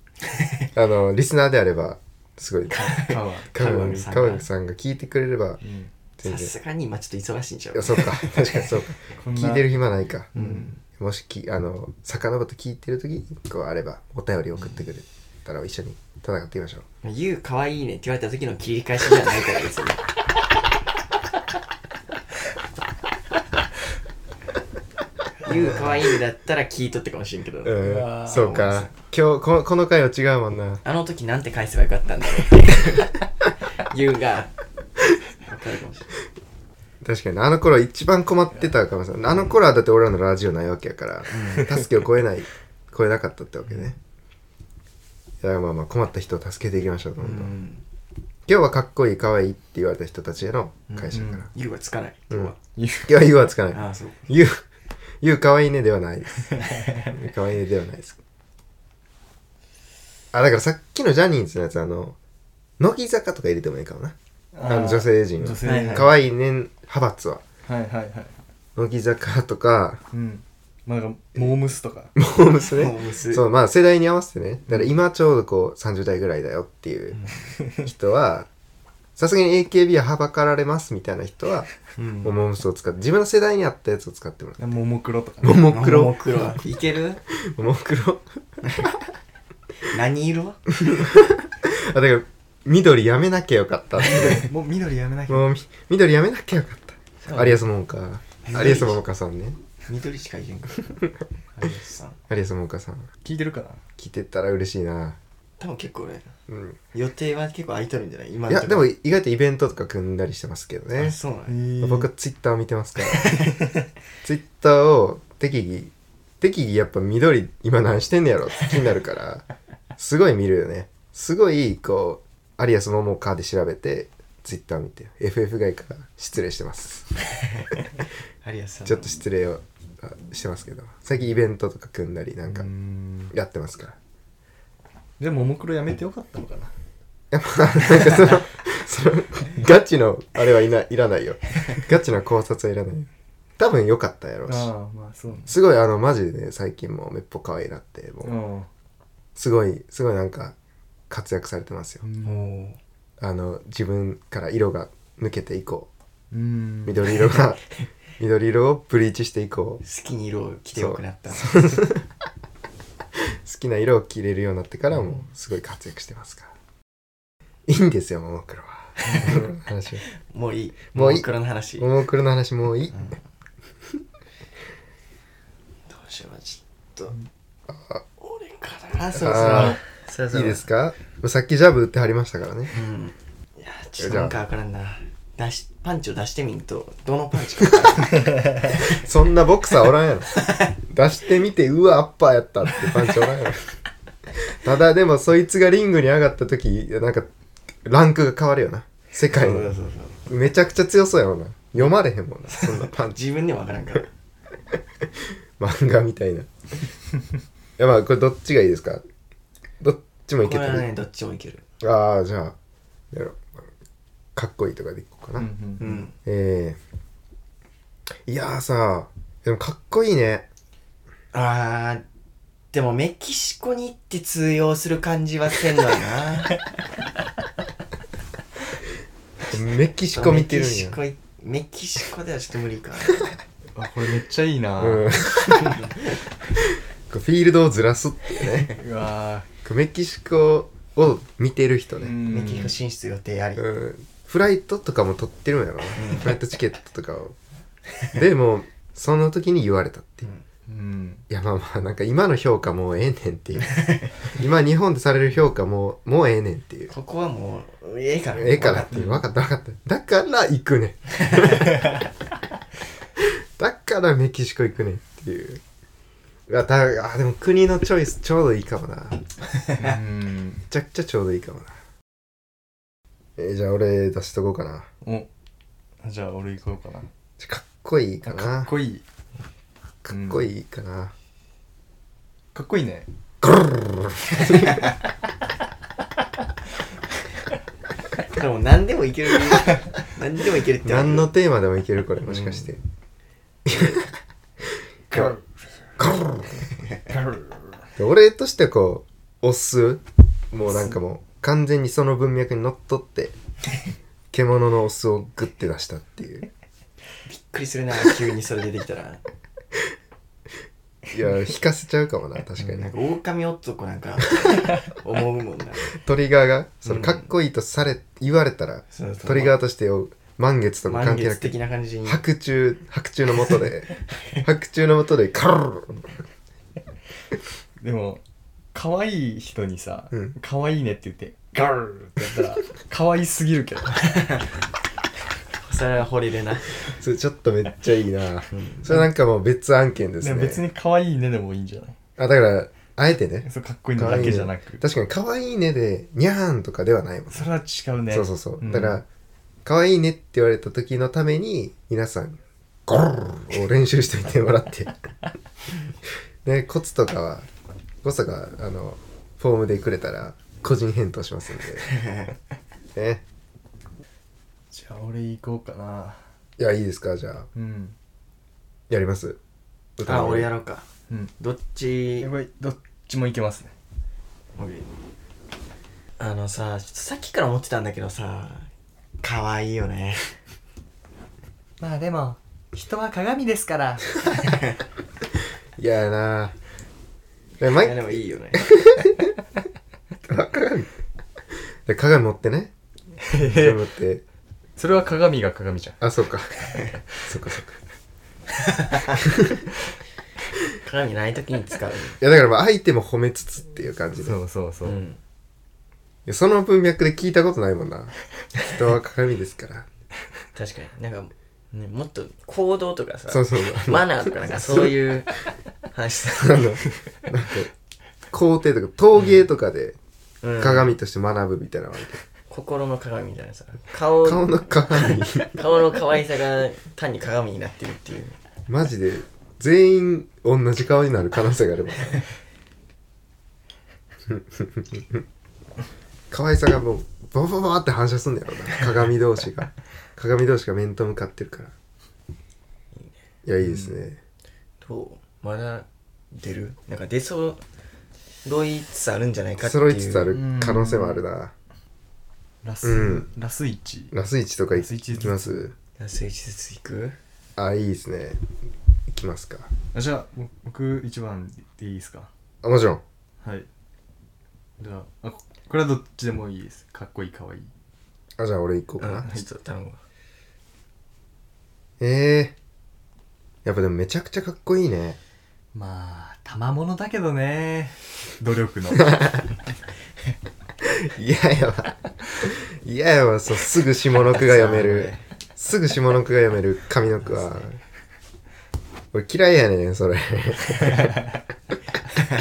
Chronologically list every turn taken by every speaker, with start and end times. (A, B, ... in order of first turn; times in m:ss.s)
0:00.2-0:00.7 A
0:00.7-0:03.0 B
0:02.7-0:04.5 A
0:02.8-0:03.5 C
0:03.5-0:05.6 B
0:05.6-0:05.9 C
0:06.2-0:06.5 B
0:06.2-0:08.7 A
0:07.7-0:10.3 B
0:09.2-0:09.8 C
0:10.3-0:10.7 C
0:10.3-0:10.8 A
0:10.9-0:16.8 B
0:17.0-0:20.0 A
0:25.4-0:28.9 A
0:27.6-0:30.8 B
0:27.8-0:28.6 C
0:30.8-0:33.2 A
0:33.8-0:34.5 A
0:35.4-0:36.1 A
0:37.0-0:44.0 B
0:41.3-0:41.7 A
0:45.4-0:47.5 B
0:47.2-0:47.8 A
0:48.5-0:51.5 B
0:50.9-0:52.6 A
0:51.1-0:51.5 C
0:52.7-0:53.3 C
0:53.0-0:54.6 B
0:53.7-0:54.2 A
0:55.2-0:58.2 B
1:00.3-1:02.2 B
1:02.8-1:07.4 B
1:04.5-1:06.1 C
1:05.6-1:06.1 A
1:07.6-1:08.3 C
1:08.8-1:10.0 B
1:10.1-1:12.1 C
1:12.2-1:17.2 B
1:12.6-1:13.4 A
1:14.7-1:14.9 C
1:17.1-1:17.5 A
1:17.8-1:18.5 B
1:19.2-1:21.7 B
1:22.0-1:22.3 A
1:22.2-1:24.6 B
1:24.6-1:25.7 C
1:25.4-1:26.3 B
1:25.6-1:27.2 A
1:27.3-1:29.0 B
1:29.8-1:30.6 A
1:30.8-1:34.5 B
1:34.0-1:35.5 C
1:35.3-1:39.6 B
1:37.2-1:37.6 A
1:38.4-1:39.0 A
1:39.9-1:41.0 A
1:41.6-1:42.2 A
1:42.3-1:43.1 B
1:43.2-1:43.8 C
1:44.0-1:45.2 B
1:45.6-1:46.3 A
1:46.5-1:46.8 B
1:46.9-1:48.9 A
1:48.5-1:51.2 B
1:51.0-1:51.6 A
1:51.5-1:52.1 C
1:51.8-1:53.4 B
1:53.2-1:53.5 A
1:53.3-1:53.7 C
1:54.2-1:59.4 B
2:00.0-2:07.2 B
2:08.4-2:09.2 A
2:08.8-2:12.7 B
2:12.5-2:13.3 C
2:13.3-2:14.0 B
2:15.2-2:16.7 C
2:17.3-2:24.7 B
2:24.5-2:25.5 C
2:25.5-2:28.3 B
2:28.2-2:28.7 C
2:29.4-2:30.5 B
2:31.1-2:32.0 B
2:32.0-2:32.4 C
2:32.2-2:32.8 A
2:33.2-2:35.9 B
2:36.3-2:37.3 C
2:36.8-2:37.6 B
2:38.2-2:39.8 B
2:39.8-2:41.8 A
2:40.8-2:42.0 B
2:43.2-2:46.5 B
2:47.6-2:50.0 B
2:49.0-2:49.5 A
2:49.1-2:49.4 C
2:50.1-2:51.9 A
2:50.9-2:53.1 B
2:52.9-2:53.2 A
2:55.9-2:57.2 A
2:57.7-2:58.0 B
2:58.2-3:00.7 A
2:59.1-2:59.8 B
2:59.5-2:59.7 C
3:00.3-3:02.7 B
3:02.7-3:09.0 A
3:04.0-3:04.4 B
3:08.8-3:13.8 B
3:14.5-3:17.3 B
3:17.8-3:19.7 B
3:19.3-3:20.2 A
3:20.3-3:23.2 B
3:22.5-3:24.1 A
3:25.6-3:26.5 B
3:27.8-3:29.0 B
3:29.8-3:30.9 B
3:30.4-3:31.6 A
3:31.8-3:32.6 B
3:33.1-3:33.7 B
3:34.4-3:35.5 B
3:35.4-3:35.9 C
3:35.8-3:36.1 A
3:36.2-3:36.8 B
3:38.3-3:40.5 B
3:41.3-3:42.0 A
3:42.7-3:46.6 A
3:49.5-3:51.0 B
3:50.1-3:53.4 A
3:53.7-3:55.2 C
3:54.8-3:55.9 B
3:55.5-3:56.2 A
3:56.6-3:58.8 B
3:58.7-3:59.5 C
3:59.6-4:02.2 B
4:02.0-4:02.8 C
4:02.2-4:03.6 A
4:03.6-4:07.3 B
4:06.0-4:06.3 A
4:08.1-4:10.3 B
4:10.7-4:11.2 C
4:11.3-4:16.9 B
4:16.9-4:19.0 A
4:18.3-4:22.0 B
4:18.9-4:19.2 C
4:23.2-4:25.6 B
4:26.5-4:29.2 B
4:29.7-4:30.6 C
4:30.7-4:31.7 B
4:33.4-4:34.9 B
4:35.0-4:35.3 C
4:36.0-4:37.1 C
4:37.4-4:38.7 B
4:38.2-4:39.0 C
4:40.0-4:41.1 B
4:40.1-4:40.5 C
4:42.5-4:43.1 C
4:43.4-4:44.9 B
4:48.3-4:51.3 A
4:50.8-4:52.8 B
4:52.2-4:52.7 A
4:53.6-4:54.1 B
4:55.1-4:55.4 B
4:56.0-4:56.7 B
4:58.0-5:03.3 B
5:04.3-5:06.5 B
5:07.2-5:09.2 A
5:11.1-5:12.9 B
5:12.6-5:15.9 A
5:15.9-5:21.5 B
5:16.8-5:17.3 A
5:18.9-5:19.6 A
5:20.8-5:22.2 A
5:22.0-5:26.0 B
5:27.8-5:28.2 C
5:28.7-5:34.3 C
5:34.1-5:34.4 A
5:35.6-5:36.7 A
5:36.9-5:40.6 B
5:38.5-5:38.9 A
5:40.2-5:42.0 C
5:42.2-5:47.5 B
5:43.4-5:44.8 C
5:47.3-5:49.0 C
5:48.1-5:49.0 B
5:49.6-5:54.9 B
5:56.4-5:57.5 B
5:58.0-6:01.9 B
6:01.8-6:02.3 A
6:02.9-6:03.2 B
6:04.7-6:06.2 C
6:06.6-6:07.5 B
6:07.5-6:07.9 C
6:08.9-6:09.4 B
6:10.0-6:10.5 B
6:10.0-6:10.9 A
6:11.4-6:12.3 A
6:12.2-6:13.7 C
6:14.6-6:14.9 A
6:16.2-6:18.7 A
6:19.2-6:20.3 A
6:21.8-6:24.5 C
6:25.8-6:26.5 B
6:27.6-6:29.3 B
6:27.7-6:28.7 A
6:30.2-6:30.9 B
6:31.8-6:32.7 B
6:33.2-6:33.8 C
6:33.4-6:34.2 B
6:34.8-6:36.0 C
6:36.0-6:36.7 B
6:37.2-6:37.8 B
6:38.6-6:39.2 A
6:39.2-6:39.6 B
6:40.8-6:42.2 A
6:42.2-6:44.4 B
6:44.2-6:45.0 C
6:44.8-6:45.2 A
6:46.2-6:49.9 B
6:50.5-6:55.3 A
6:53.3-6:54.9 B
6:55.9-6:56.8 A
6:56.3-6:57.7 B
6:58.3-7:00.0 B
7:00.4-7:00.9 A
7:00.6-7:02.2 B
7:02.5-7:08.4 A
7:04.2-7:05.6 B
7:08.7-7:12.2 B
7:14.3-7:15.2 B
7:16.3-7:21.7 B
7:23.4-7:24.2 B
7:23.6-7:24.1 C
7:24.8-7:27.6 A
7:28.4-7:30.3 A
7:29.6-7:31.5 B
7:30.3-7:31.2 C
7:32.6-7:34.1 C
7:32.8-7:33.3 B
7:34.1-7:35.7 B
7:34.7-7:35.7 C
7:36.0-7:37.2 A
7:37.6-7:38.4 B
7:39.1-7:39.7 B
7:39.9-7:42.3 C
7:42.6-7:43.0 B
7:44.8-7:47.7 C
7:48.4-7:49.2 B
7:49.0-7:50.0 A
7:52.0-7:52.5 B
7:53.6-7:55.2 B
7:55.7-7:59.2 C
7:59.0-7:59.4 B
8:00.8-8:07.8 B
8:04.2-8:05.2 A
8:07.2-8:07.6 A
8:09.1-8:11.2 B